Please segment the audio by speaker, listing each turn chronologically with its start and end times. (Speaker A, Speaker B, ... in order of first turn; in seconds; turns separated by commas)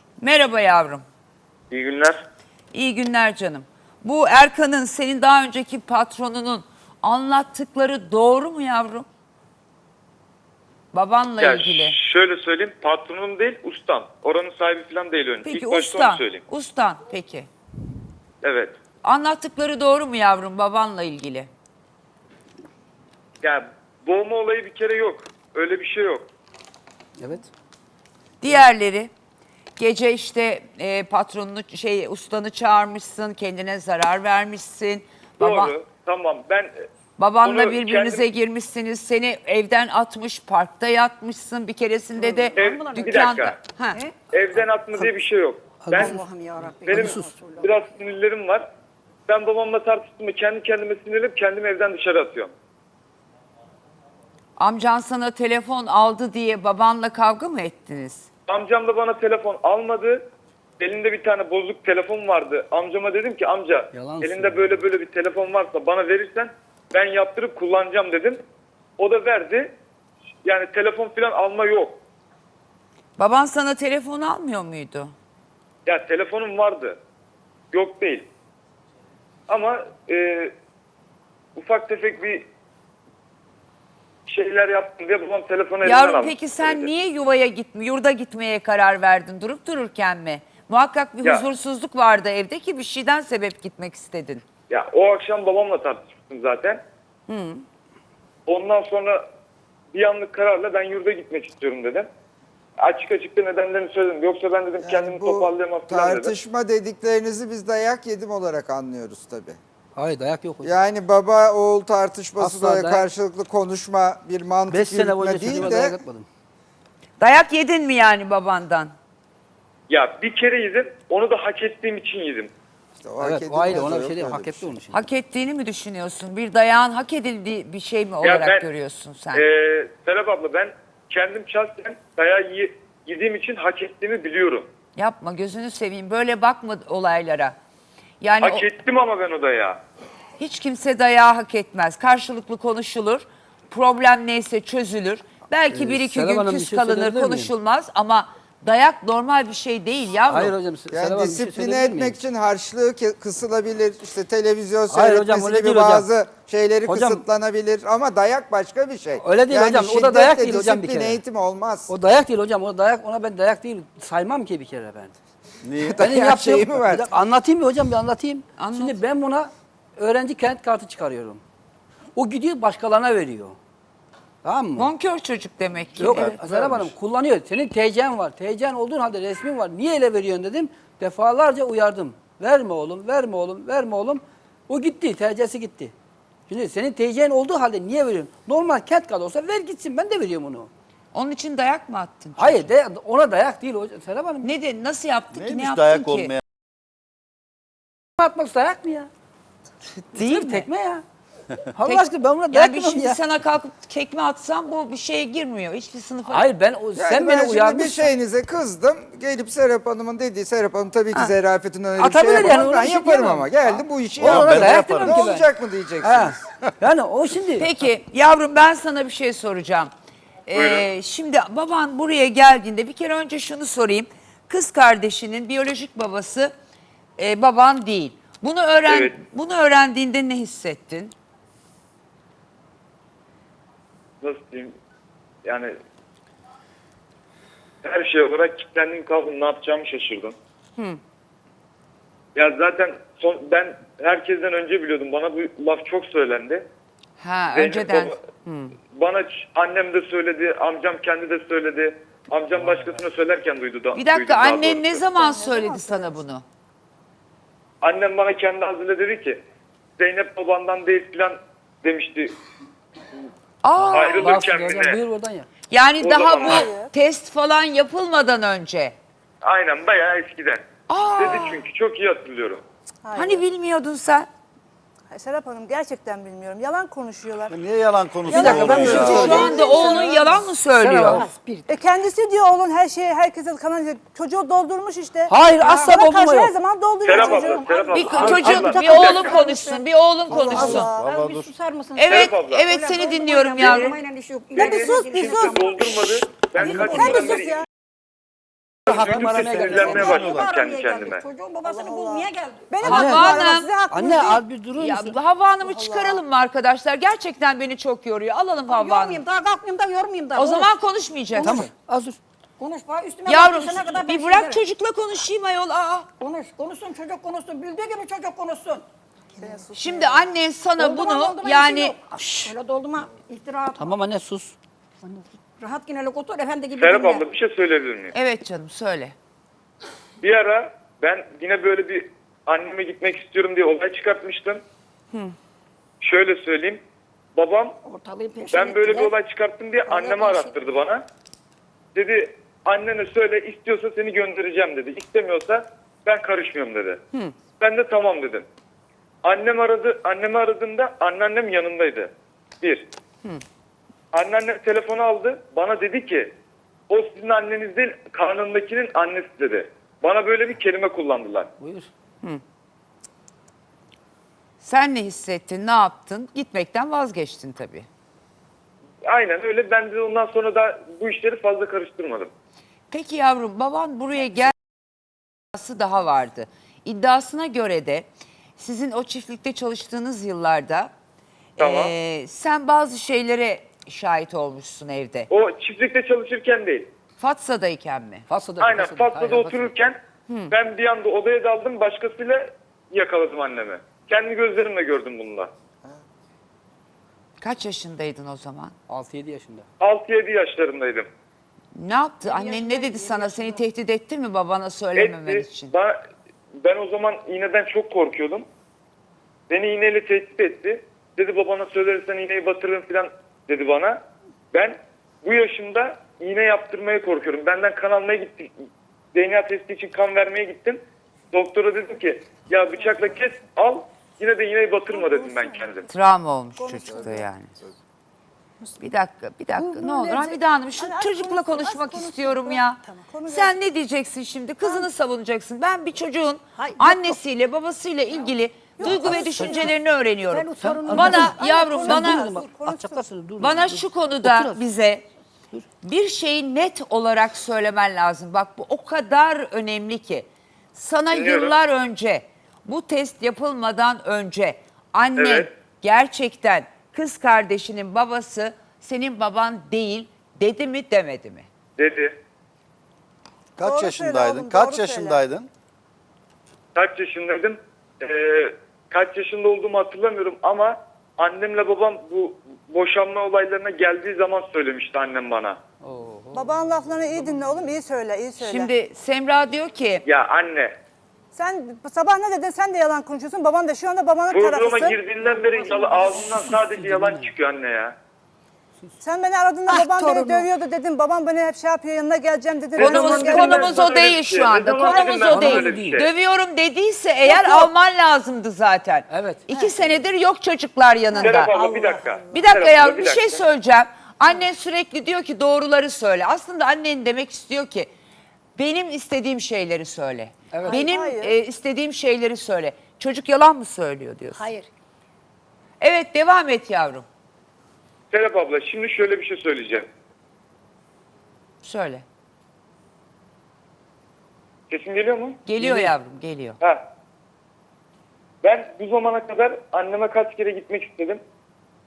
Speaker A: 0.2-1.0, Speaker B: 1.7-2.1, Speaker A: 2.7-9.1, Speaker A: 10.9-11.9, Speaker B: 11.4-16.4, Speaker A: 15.4-17.5, Speaker B: 18.4-18.7, Speaker A: 19.0-21.5, Speaker B: 23.4-26.3, Speaker C: 27.2-27.5, Speaker A: 28.4-29.1, Speaker A: 29.8-35.7, Speaker B: 35.4-36.7, Speaker A: 37.2-44.0, Speaker B: 37.4-38.2, Speaker D: 42.2-43.2, Speaker B: 42.5-43.6, Speaker D: 43.9-44.2, Speaker B: 44.3-46.2, Speaker C: 45.8-46.2, Speaker D: 46.0-47.8, Speaker B: 46.8-48.6, Speaker C: 46.9-47.3, Speaker B: 49.3-52.5, Speaker A: 54.6-58.3, Speaker B: 58.5-60.2, Speaker B: 60.8-68.4, Speaker C: 63.9-64.8, Speaker B: 69.0-69.7, Speaker B: 70.4-72.0, Speaker A: 73.2-75.1, Speaker B: 75.8-77.0, Speaker B: 77.7-78.3, Speaker B: 79.5-80.5, Speaker B: 81.5-82.5, Speaker B: 84.3-86.9, Speaker A: 85.8-94.4, Speaker B: 94.7-96.8, Speaker A: 97.3-97.6, Speaker B: 98.5-99.2, Speaker B: 99.9-102.1, Speaker B: 102.8-106.3, Speaker E: 104.8-109.6, Speaker C: 109.9-110.7, Speaker E: 110.6-116.0, Speaker C: 112.4-113.1, Speaker C: 114.7-116.3, Speaker A: 117.2-118.9, Speaker B: 119.9-122.5, Speaker E: 123.0-124.7, Speaker C: 123.2-124.9, Speaker A: 124.9-129.4, Speaker B: 128.2-128.7, Speaker B: 129.3-134.7, Speaker A: 134.9-137.6, Speaker A: 138.2-138.7, Speaker B: 138.4-139.8, Speaker A: 140.4-150.5, Speaker C: 145.7-147.5, Speaker C: 150.3-152.2, Speaker E: 150.9-161.9, Speaker C: 154.9-156.1, Speaker C: 156.8-157.2, Speaker C: 159.2-161.2, Speaker C: 161.9-165.1, Speaker E: 165.6-167.1, Speaker C: 165.9-171.4, Speaker A: 168.6-169.0, Speaker C: 172.1-173.6, Speaker C: 174.4-174.9, Speaker A: 174.8-176.3, Speaker C: 176.0-185.9, Speaker F: 176.1-176.8, Speaker C: 186.5-190.7, Speaker A: 191.1-192.7, Speaker C: 192.4-194.5, Speaker A: 194.4-196.3, Speaker F: 195.3-196.4, Speaker C: 198.2-199.1, Speaker A: 199.9-200.7, Speaker C: 200.1-201.0, Speaker C: 201.7-203.2, Speaker A: 201.8-206.5, Speaker C: 206.3-208.1, Speaker E: 206.9-216.6, Speaker C: 212.0-213.6, Speaker C: 214.1-215.5, Speaker F: 214.2-215.3, Speaker C: 216.0-217.7, Speaker A: 217.6-219.9, Speaker A: 220.4-226.5, Speaker B: 220.5-220.9, Speaker A: 227.2-231.1, Speaker B: 228.9-229.2, Speaker B: 234.2-234.7, Speaker B: 235.4-235.7, Speaker B: 237.8-240.3, Speaker B: 242.3-246.7, Speaker A: 247.2-248.7, Speaker B: 247.5-248.2, Speaker B: 248.9-255.0, Speaker A: 253.9-256.4, Speaker G: 255.1-256.2, Speaker B: 257.8-259.4, Speaker B: 260.0-262.4, Speaker A: 263.6-264.3, Speaker B: 263.9-265.0, Speaker C: 264.0-265.5, Speaker A: 265.7-268.9, Speaker B: 266.0-266.7, Speaker G: 266.4-266.9, Speaker B: 269.4-270.6, Speaker A: 270.9-271.6, Speaker B: 271.2-272.6, Speaker G: 273.0-273.4, Speaker A: 273.1-274.3, Speaker G: 275.1-277.6, Speaker F: 277.5-279.7, Speaker G: 278.3-280.4, Speaker C: 278.3-279.4, Speaker A: 278.8-281.2, Speaker D: 279.5-279.9, Speaker C: 280.7-281.6, Speaker G: 281.7-288.3, Speaker C: 285.3-286.5, Speaker B: 287.0-289.4, Speaker D: 287.2-289.8, Speaker A: 287.9-290.9, Speaker C: 288.4-288.7, Speaker G: 290.3-291.1, Speaker D: 290.4-296.0, Speaker F: 290.5-291.5, Speaker A: 291.9-294.0, Speaker B: 292.1-292.7, Speaker B: 293.6-293.9, Speaker B: 294.5-297.6, Speaker G: 294.6-297.6, Speaker C: 296.6-297.4, Speaker D: 297.0-297.3, Speaker C: 298.9-300.2, Speaker B: 298.9-301.2, Speaker F: 298.9-300.5, Speaker D: 299.8-302.7, Speaker G: 301.6-304.4, Speaker A: 302.8-303.7, Speaker C: 302.8-305.2, Speaker A: 304.8-309.2, Speaker G: 305.6-306.2, Speaker D: 308.7-310.7, Speaker A: 310.4-311.7, Speaker C: 311.4-312.2, Speaker D: 312.6-314.6, Speaker A: 313.2-316.1, Speaker D: 316.2-318.8, Speaker D: 319.4-319.9, Speaker G: 319.4-319.7, Speaker A: 319.7-321.9, Speaker D: 320.8-323.9, Speaker C: 322.1-322.5, Speaker C: 323.8-324.6, Speaker D: 325.6-327.2, Speaker B: 326.7-328.1, Speaker A: 328.1-329.1, Speaker B: 330.2-334.6, Speaker B: 336.0-336.8, Speaker B: 337.3-337.7, Speaker D: 337.8-339.1, Speaker B: 338.5-341.0, Speaker D: 339.9-340.6, Speaker B: 341.9-347.0, Speaker B: 347.6-348.4, Speaker B: 349.2-352.1, Speaker B: 352.6-352.9, Speaker B: 354.1-356.3, Speaker B: 356.9-361.5, Speaker C: 361.6-361.9, Speaker A: 364.6-367.9, Speaker B: 369.0-372.3, Speaker A: 372.9-374.5, Speaker A: 375.5-380.9, Speaker A: 381.6-385.3, Speaker B: 381.6-381.9, Speaker B: 385.3-386.9, Speaker A: 387.2-388.3, Speaker C: 388.3-389.7, Speaker B: 388.6-390.0, Speaker B: 390.5-395.5, Speaker A: 397.4-398.7, Speaker C: 398.9-399.6, Speaker B: 399.8-401.1, Speaker A: 401.7-405.7, Speaker D: 402.2-403.6, Speaker B: 404.9-406.0, Speaker B: 406.6-408.4, Speaker B: 409.5-414.0, Speaker B: 414.5-418.5, Speaker B: 419.1-420.8, Speaker B: 421.3-425.9, Speaker G: 424.9-425.9, Speaker A: 425.9-427.5, Speaker G: 426.6-427.2, Speaker A: 428.8-442.3, Speaker G: 429.6-433.5, Speaker G: 434.6-434.9, Speaker D: 436.6-437.2, Speaker G: 438.8-439.7, Speaker C: 438.9-439.7, Speaker D: 440.3-442.4, Speaker C: 440.6-444.6, Speaker G: 441.1-443.0, Speaker A: 443.4-445.0, Speaker A: 445.8-461.5, Speaker B: 451.1-451.6, Speaker B: 455.2-455.5, Speaker B: 461.8-462.1, Speaker F: 463.6-465.5, Speaker G: 463.6-465.2, Speaker B: 466.7-475.6, Speaker C: 475.8-477.5, Speaker G: 476.3-478.7, Speaker A: 478.4-480.0, Speaker B: 480.0-480.7, Speaker G: 481.3-485.0, Speaker B: 484.3-487.9, Speaker C: 485.8-487.3, Speaker G: 489.0-494.1, Speaker A: 489.7-490.5, Speaker B: 492.7-496.1, Speaker A: 492.8-501.5, Speaker G: 494.7-495.5, Speaker C: 495.3-496.0, Speaker G: 497.2-497.7, Speaker C: 499.1-499.4, Speaker G: 501.1-502.5, Speaker B: 501.2-503.4, Speaker A: 502.3-507.9, Speaker A: 508.6-514.5, Speaker C: 510.5-510.8, Speaker G: 510.7-511.3, Speaker D: 514.4-514.7, Speaker A: 515.8-517.0, Speaker B: 518.1-519.9, Speaker A: 521.6-522.0, Speaker B: 524.7-525.4, Speaker A: 525.5-526.6, Speaker C: 525.6-525.9, Speaker B: 528.4-531.2